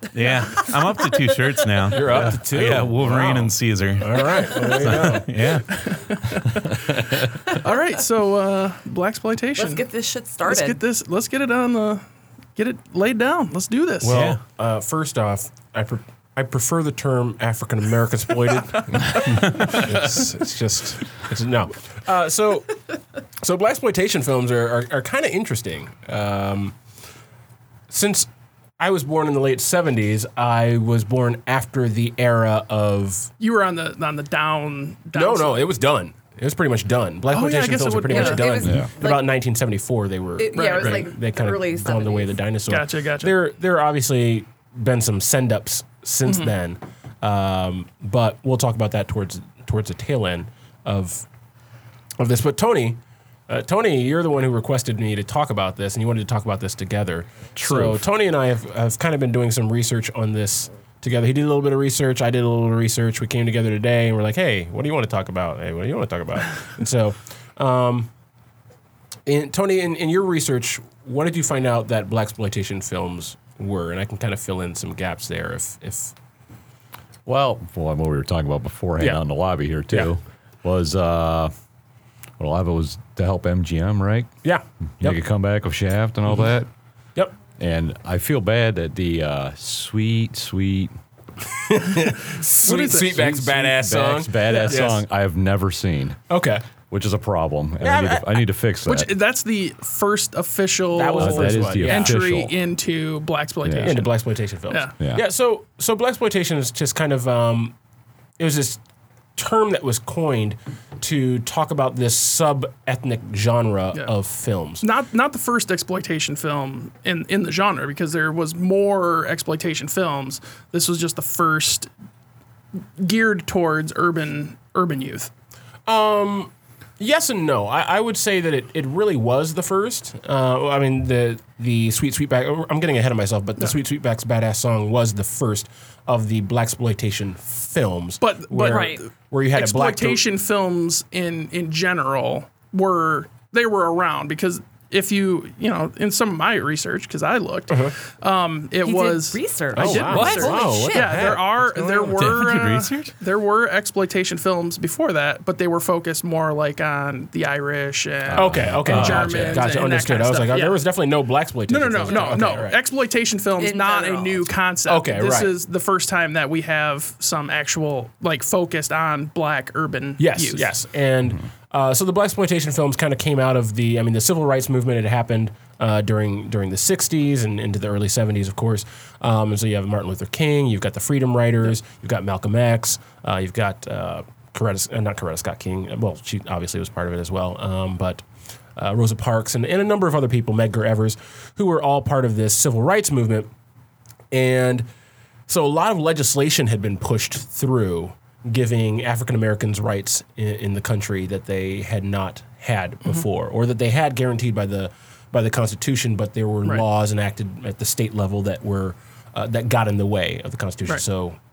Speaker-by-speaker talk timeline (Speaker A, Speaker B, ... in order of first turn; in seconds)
Speaker A: 0.1-6.4, 14.1-14.4, 150.0-150.8, 152.0-153.1, 158.9-159.2
Speaker B: 1.9-5.3, 14.0-22.8, 23.4-26.8, 27.9-33.3, 35.1-51.2, 52.2-68.1, 69.3-76.1, 84.4-85.2, 91.7-95.0, 96.3-96.6, 97.8-98.4, 100.9-102.2, 103.8-107.7, 108.4-108.8, 109.3-114.8, 125.9-140.2, 147.7-147.9, 149.7-152.3, 158.3-162.8, 164.8-165.5, 170.2-188.2, 188.8-193.5, 194.3-194.9, 195.5-211.4
Speaker C: 5.7-9.8, 10.4-12.0, 12.6-14.2, 33.4-35.7, 37.3-38.7, 40.5-41.1, 42.7-43.3, 92.6-93.0, 98.8-104.1, 114.8-121.9, 123.0-125.3, 138.2-160.8, 161.7-170.7
Speaker D: 9.6-10.8, 38.1-39.3, 40.4-42.4, 138.7-139.0, 148.8-151.4, 162.1-162.4, 163.6-164.5
Speaker E: 38.6-38.9, 57.5-58.0, 77.2-81.5, 82.4-84.3, 85.0-86.7, 87.6-90.9, 92.8-96.2, 96.9-99.1, 101.2-102.5, 103.6-104.0, 158.9-159.3